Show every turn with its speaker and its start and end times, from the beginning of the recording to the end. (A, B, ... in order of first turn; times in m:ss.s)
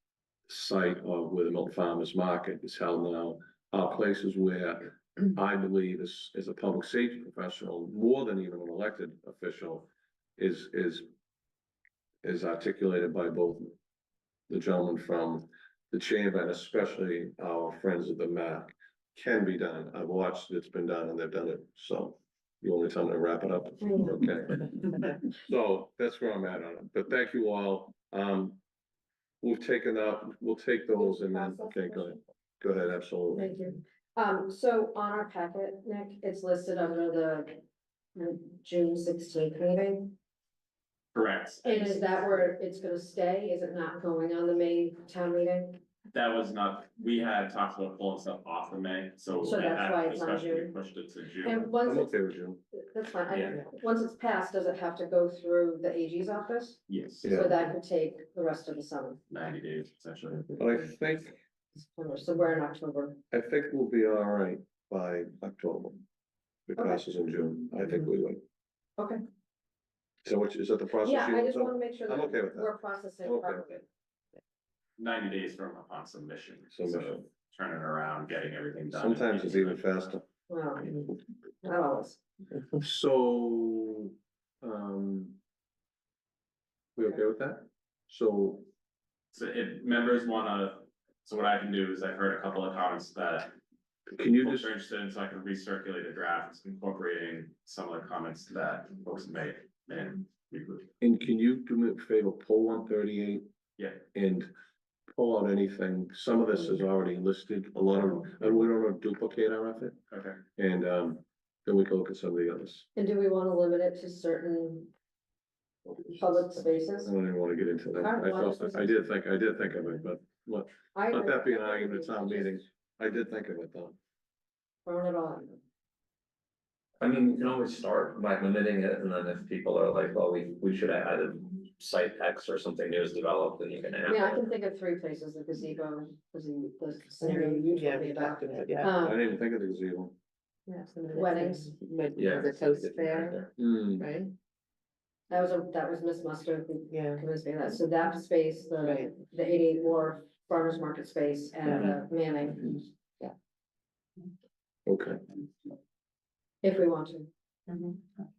0:00.5-0:11.1 A
0:12.2-0:13.8 A
0:14.5-0:28.6 A
0:23.8-0:24.1 B
0:29.4-0:33.6 A
0:31.0-0:32.1 B
0:33.3-0:37.6 B
0:38.1-0:40.2 B
0:41.1-0:42.5 C
0:41.6-0:45.8 B
0:46.1-0:51.7 C
0:49.4-0:50.7 B
0:51.4-0:59.2 B
0:51.8-0:52.6 A
0:53.3-0:53.6 C
0:56.9-0:57.4 C
0:57.2-0:57.5 A
0:59.3-1:00.6 C
1:00.6-1:01.4 A
1:01.8-1:03.2 B
1:03.3-1:06.0 A
1:06.7-1:08.4 A
1:10.2-1:13.7 A
1:11.0-1:13.8 B
1:15.0-1:19.8 C
1:16.7-1:17.2 A
1:18.9-1:20.2 A
1:20.5-1:22.2 B
1:22.7-1:25.4 A
1:27.0-1:28.7 A
1:29.3-1:33.5 C
1:34.1-1:34.7 A
1:34.3-1:40.9 C
1:41.0-1:43.4 A
1:44.1-1:44.5 A
1:45.1-1:50.0 A
1:50.1-1:50.4 C
1:50.6-1:52.9 A
1:53.0-1:54.9 B
1:56.2-1:57.1 B
1:57.0-2:04.0 A
1:58.0-1:59.1 B
2:00.9-2:02.6 B
2:04.8-2:05.6 B
2:07.0-2:14.4 D
2:14.0-2:19.2 B
2:17.2-2:18.9 E
2:19.0-2:20.1 A
2:20.7-2:23.4 E
2:21.1-2:21.8 B
2:22.1-2:23.5 D
2:23.6-2:24.1 A
2:24.0-2:24.3 E
2:25.3-2:32.9 B
2:26.9-2:27.2 E
2:28.8-2:29.1 E
2:34.8-2:35.2 A
2:36.6-2:37.3 B